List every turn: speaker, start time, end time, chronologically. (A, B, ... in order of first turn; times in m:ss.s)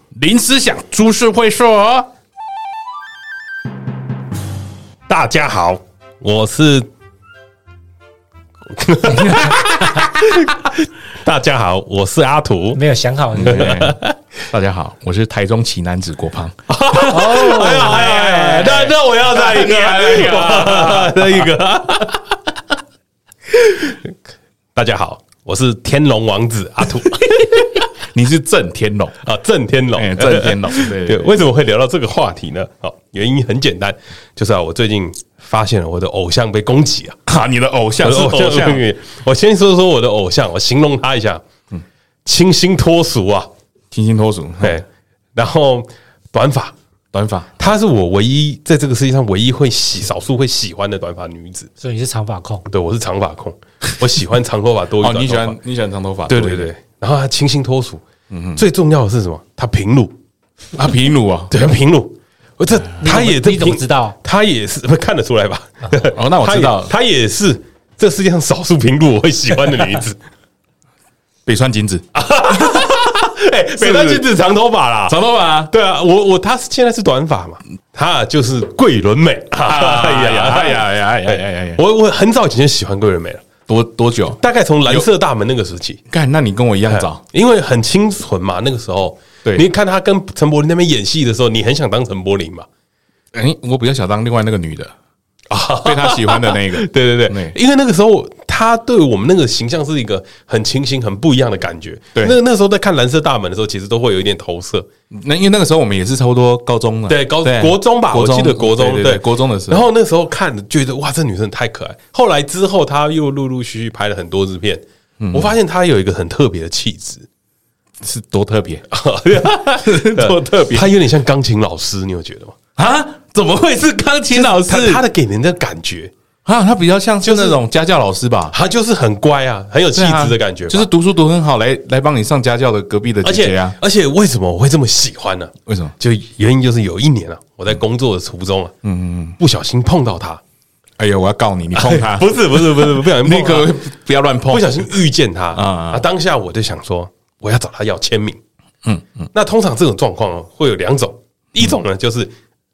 0:00.2-0:02.1 A
0:05.1-0:06.9 B
0:08.7-0:12.8 B
0:12.8-0:13.8 C
0:13.4-0:14.0 A
0:13.4-0:14.2 B
0:14.5-0:16.6 A
0:16.7-0:22.3 B
0:17.1-0:21.5 A
0:17.1-0:18.9 C
0:23.5-0:24.1 B
0:24.8-0:27.8 B
0:27.3-0:29.1 A
0:29.2-0:37.2 B
0:29.9-0:31.4 A
0:37.3-0:38.8 A
0:38.0-0:41.4 B
0:42.2-0:43.5 B
0:43.9-0:44.8 A
0:44.6-0:46.7 B
0:47.1-0:47.5 A
0:47.6-0:51.7 B
0:51.8-0:52.6 C
0:52.7-0:55.6 B
0:55.0-0:56.7 A
0:56.3-0:58.0 B
0:58.3-0:58.6 A
0:58.5-1:00.1 B
1:00.8-1:01.7 A
1:01.5-1:10.2 B
1:03.0-1:04.2 C
1:06.0-1:06.9 A
1:11.4-1:12.0 A
1:12.1-1:15.2 B
1:13.8-1:14.2 A
1:15.1-1:15.7 A
1:15.7-1:23.4 B
1:19.6-1:21.8 A
1:23.7-1:25.1 A
1:24.4-1:26.0 B
1:26.1-1:27.2 A
1:26.9-1:32.7 B
1:33.3-1:34.9 A
1:35.5-1:44.9 B
1:35.8-1:37.6 A
1:45.1-1:49.9 A
1:47.1-1:57.3 B
1:55.2-1:55.5 A
1:58.0-1:58.8 A
1:58.9-2:02.6 B
1:59.7-2:00.9 A
2:02.8-2:05.0 A
2:04.3-2:06.1 B
2:06.4-2:08.6 A
2:07.2-2:07.6 B
2:08.5-2:10.9 B
2:09.9-2:13.8 A
2:13.2-2:18.7 B
2:15.7-2:15.9 A
2:18.8-2:19.4 A
2:19.4-2:20.4 B
2:21.0-2:24.9 A
2:21.7-2:23.8 B
2:24.5-2:28.4 B
2:25.5-2:26.0 A
2:28.8-2:29.3 A
2:29.3-2:32.3 B